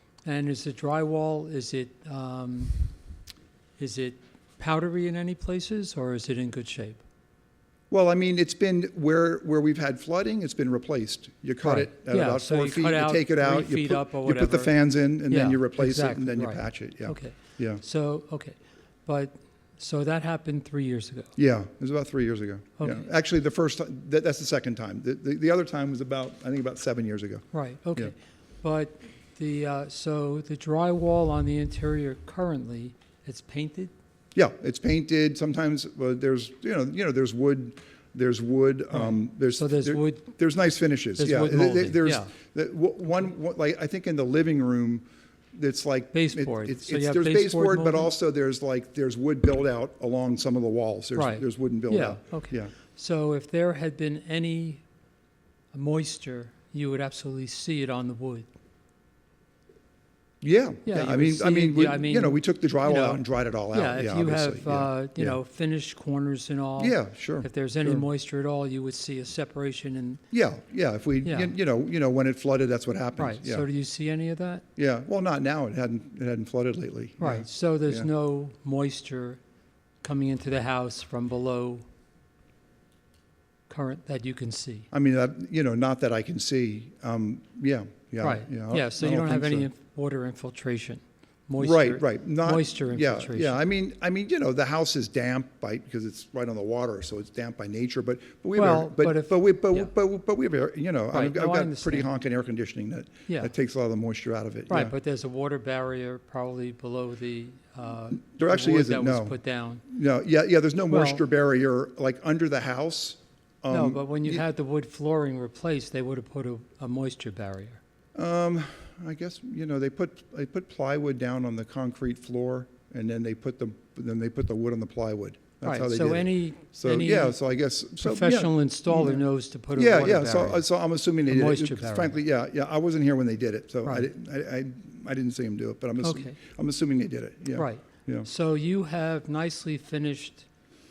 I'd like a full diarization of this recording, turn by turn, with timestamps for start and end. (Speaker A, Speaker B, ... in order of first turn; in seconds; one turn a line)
Speaker A: 0.2-3.0
Speaker A: 3.8-7.0
Speaker B: 7.9-17.8
Speaker A: 11.6-21.3
Speaker B: 21.4-28.1
Speaker A: 22.8-23.1
Speaker A: 27.5-33.9
Speaker B: 34.3-52.7
Speaker A: 38.9-40.3
Speaker A: 41.2-42.3
Speaker A: 46.1-48.1
Speaker A: 51.1-54.8
Speaker A: 55.7-58.5
Speaker B: 60.4-65.4
Speaker A: 60.8-70.2
Speaker B: 66.8-68.1
Speaker B: 70.3-73.7
Speaker A: 71.2-71.5
Speaker A: 73.2-74.6
Speaker B: 74.8-78.1
Speaker A: 77.2-79.4
Speaker A: 80.0-81.8
Speaker A: 83.7-84.9
Speaker B: 84.9-89.7
Speaker A: 88.2-93.6
Speaker B: 91.6-104.9
Speaker A: 98.5-99.9
Speaker A: 101.1-102.1
Speaker A: 103.3-103.5
Speaker A: 104.7-109.8
Speaker B: 108.1-114.4
Speaker A: 110.9-111.2
Speaker A: 113.7-117.8
Speaker B: 118.1-138.3
Speaker A: 125.6-132.2
Speaker A: 133.8-134.1
Speaker A: 136.0-136.3
Speaker A: 137.5-140.5